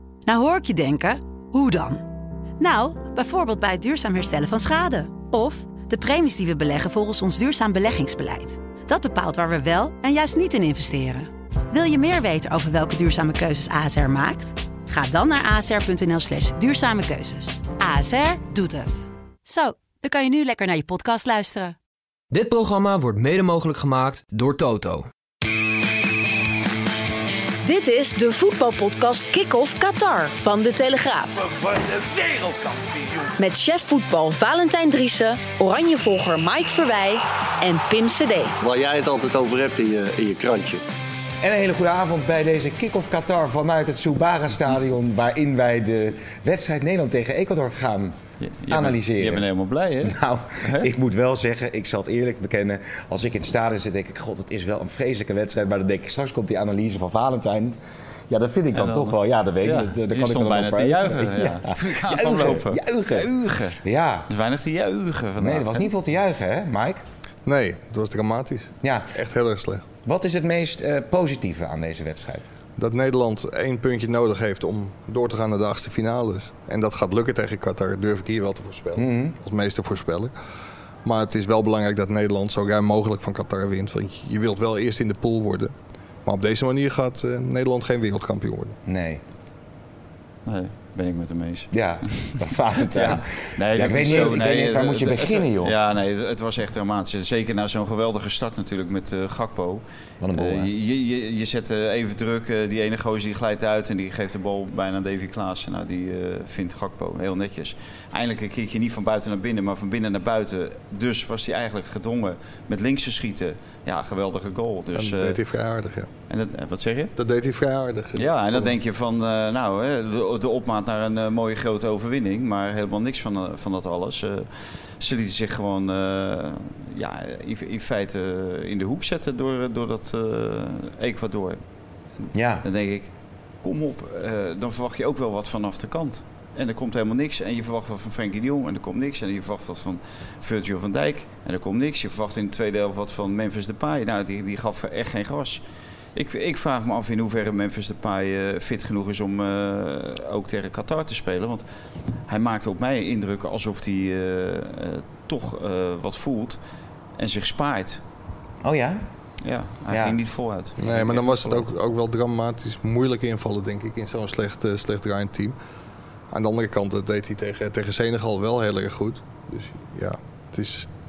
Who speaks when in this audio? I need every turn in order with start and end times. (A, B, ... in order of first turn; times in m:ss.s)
0:00.3-0:02.0 A
0:02.6-0:21.8 A
0:22.3-0:25.1 B
0:27.6-0:31.4 C
0:33.4-0:38.6 C
0:38.6-0:40.8 D
0:41.4-0:48.2 E
0:48.4-0:50.9 F
0:48.7-0:49.4 E
0:50.0-0:57.8 E
0:58.3-1:03.3 E
0:58.7-1:05.9 F
1:03.8-1:04.3 E
1:05.4-1:07.0 E
1:07.4-1:09.8 G
1:08.8-1:09.2 E
1:10.0-1:12.5 E
1:12.8-1:20.3 G
1:19.0-1:19.4 E
1:21.0-1:25.7 G
1:26.2-1:28.8 G
1:28.9-1:29.2 E
1:30.5-1:32.2 F
1:31.7-1:35.8 E
1:32.9-1:39.8 F
1:33.9-1:34.3 G
1:40.2-1:40.7 E
1:40.3-1:55.4 F
1:54.9-1:56.1 G
1:56.3-1:57.1 F
1:57.2-1:58.8 G
1:58.2-2:11.6 F
2:12.3-2:12.6 E
2:12.6-2:13.1 F
2:13.6-2:25.6 F
2:26.2-2:31.7 F
2:32.3-2:36.6 F
2:37.2-2:38.0 F
2:38.6-2:39.0 E
2:39.4-2:41.7 F
2:39.9-2:40.2 E
2:40.8-2:45.6 G
2:46.3-2:50.9 G